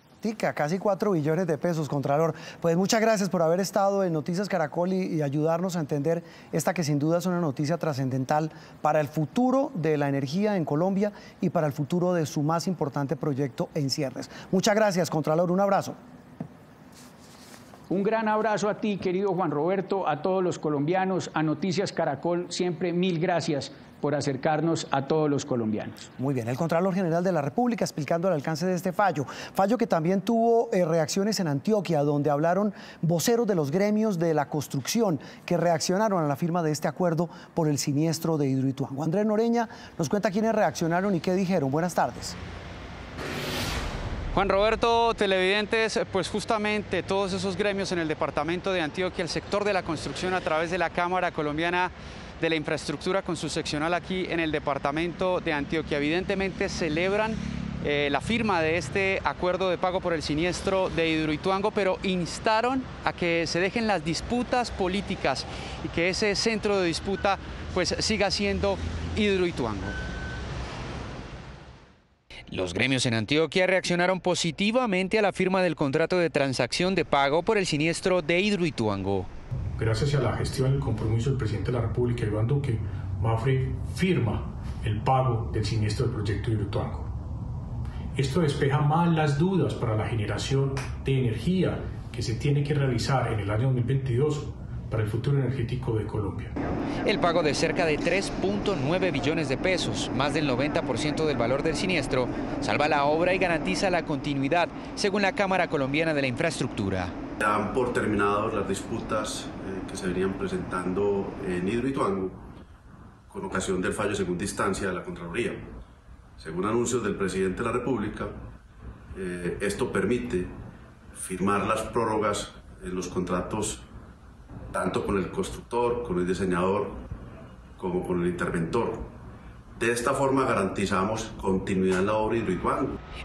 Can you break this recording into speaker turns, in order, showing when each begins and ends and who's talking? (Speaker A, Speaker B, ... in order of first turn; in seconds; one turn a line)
Speaker A: 0.2-16.0
Speaker B: 17.9-26.1
Speaker A: 26.2-42.4
Speaker C: 44.3-70.0
Speaker C: 72.5-79.3
Speaker D: 79.8-87.1
Speaker D: 88.2-96.5
Speaker C: 97.0-107.1
Speaker E: 107.4-112.4
Speaker E: 113.3-115.7
Speaker E: 116.4-118.4
Speaker E: 119.1-120.6
Speaker E: 121.2-123.8
Speaker E: 124.7-127.0
Speaker E: 127.8-129.1
Speaker E: 129.8-133.0